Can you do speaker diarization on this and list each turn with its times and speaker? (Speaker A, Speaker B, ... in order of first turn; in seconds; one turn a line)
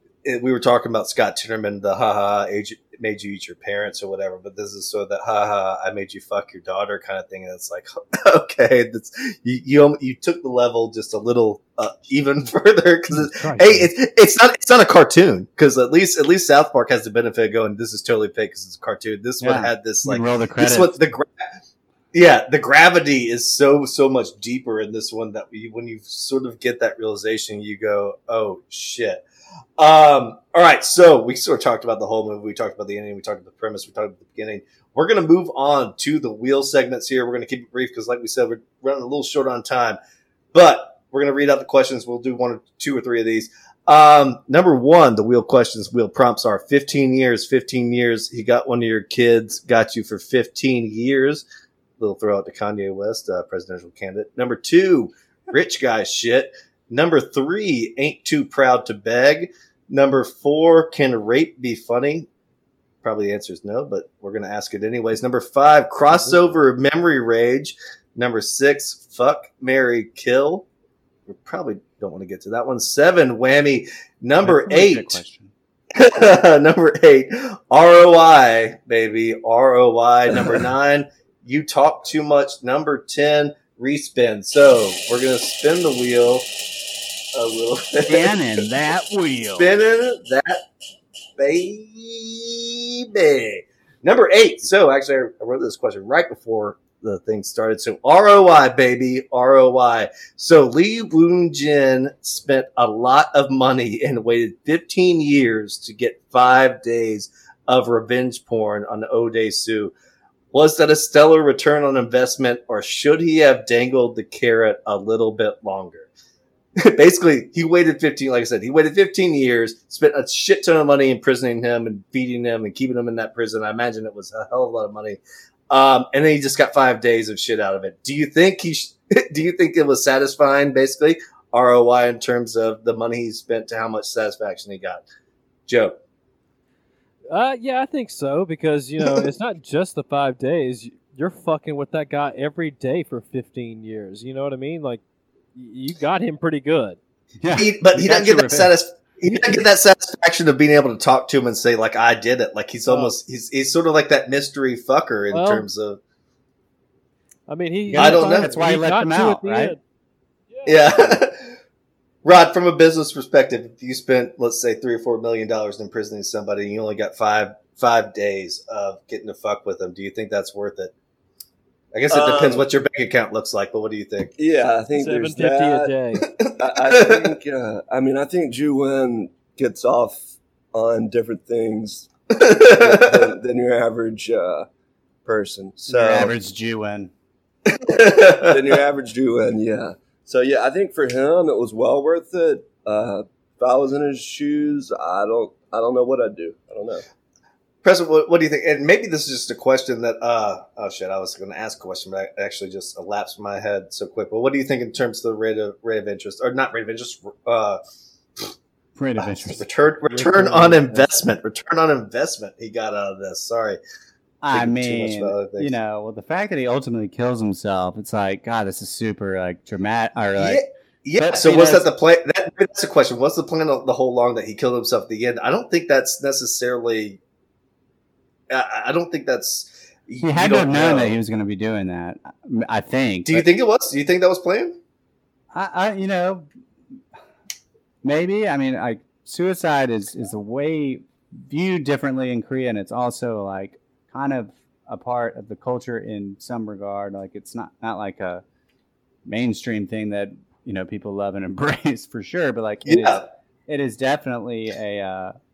Speaker A: 0.2-21.4
Speaker B: 13.3-13.8
Speaker B: 19.4-21.0
Speaker A: 22.1-29.2
Speaker A: 29.8-40.0
Speaker A: 40.5-51.5
Speaker A: 52.0-62.3
Speaker A: 63.0-70.7
Speaker C: 66.2-66.5
Speaker A: 71.3-75.2
Speaker B: 74.4-75.5
Speaker A: 75.9-86.6
Speaker A: 87.3-88.3
Speaker B: 88.0-89.7
Speaker A: 89.5-90.6
Speaker A: 91.4-109.9
Speaker A: 110.5-116.1
Speaker A: 116.8-125.2
Speaker A: 125.7-135.0
Speaker A: 135.7-135.9
Speaker C: 137.3-145.0
Speaker C: 145.5-147.0
Speaker B: 147.4-148.7
Speaker A: 147.6-156.0
Speaker C: 152.9-153.1
Speaker C: 155.3-155.7
Speaker C: 157.5-159.8
Speaker B: 157.9-159.7
Speaker A: 157.9-158.6
Speaker C: 160.5-161.0
Speaker A: 160.7-161.5
Speaker A: 162.2-170.9
Speaker A: 171.9-174.3
Speaker D: 172.1-172.7
Speaker D: 174.4-175.9
Speaker C: 174.9-176.3
Speaker A: 176.4-177.3
Speaker D: 176.6-182.1
Speaker A: 182.3-183.1
Speaker D: 182.7-184.7
Speaker D: 185.2-186.3
Speaker B: 185.9-187.1
Speaker A: 187.7-188.7
Speaker D: 188.4-197.0
Speaker A: 197.8-207.8
Speaker B: 208.9-209.6
Speaker A: 209.2-213.8
Speaker C: 210.1-211.1
Speaker B: 214.4-220.6
Speaker A: 214.5-215.7
Speaker A: 220.4-227.2
Speaker B: 221.2-221.9
Speaker A: 228.5-231.2
Speaker B: 230.2-233.5
Speaker A: 233.2-234.8
Speaker B: 235.5-236.5
Speaker B: 238.0-248.4
Speaker B: 249.2-255.3
Speaker A: 252.8-253.2